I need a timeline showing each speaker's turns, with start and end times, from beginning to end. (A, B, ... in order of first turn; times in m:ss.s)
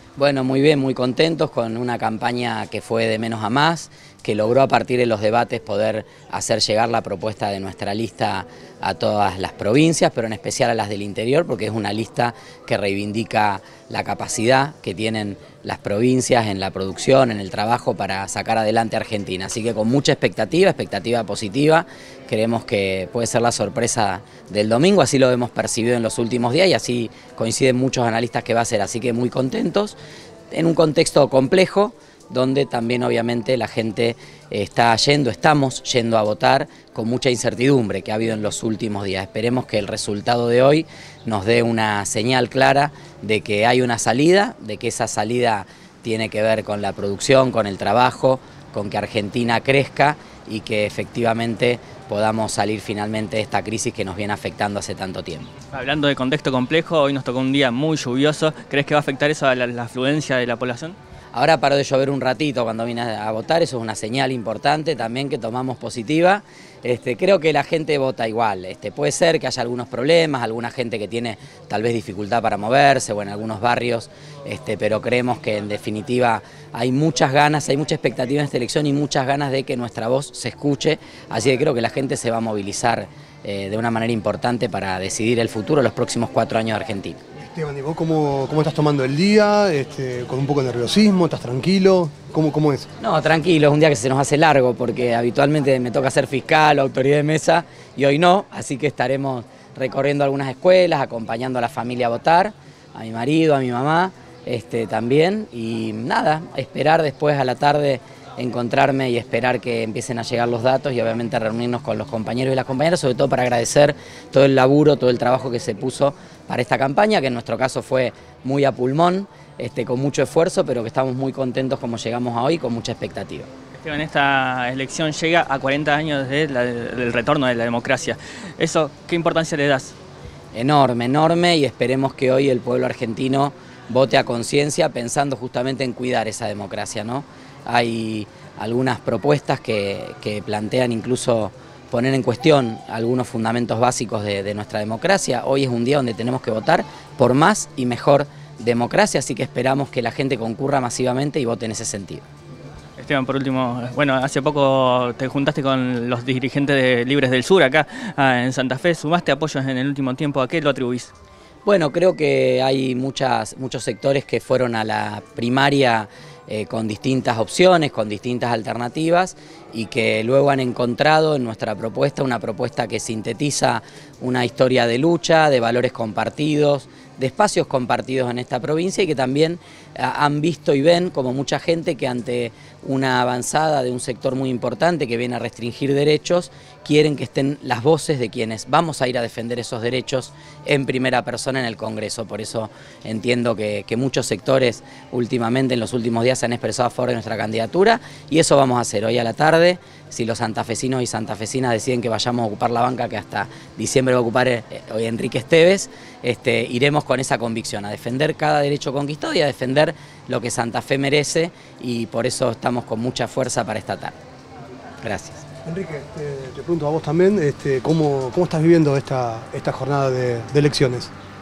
0:00.2-0:30.0 A
0:30.5-0:55.5 A
0:55.7-1:01.0 B
1:01.3-1:27.2 A
1:27.4-1:32.9 C
1:33.0-2:03.5 A
2:03.7-2:10.0 B
2:10.5-2:32.2 A
2:33.0-2:41.1 B
2:41.7-3:34.2 A
3:35.0-3:35.4 A
3:35.6-3:41.1 C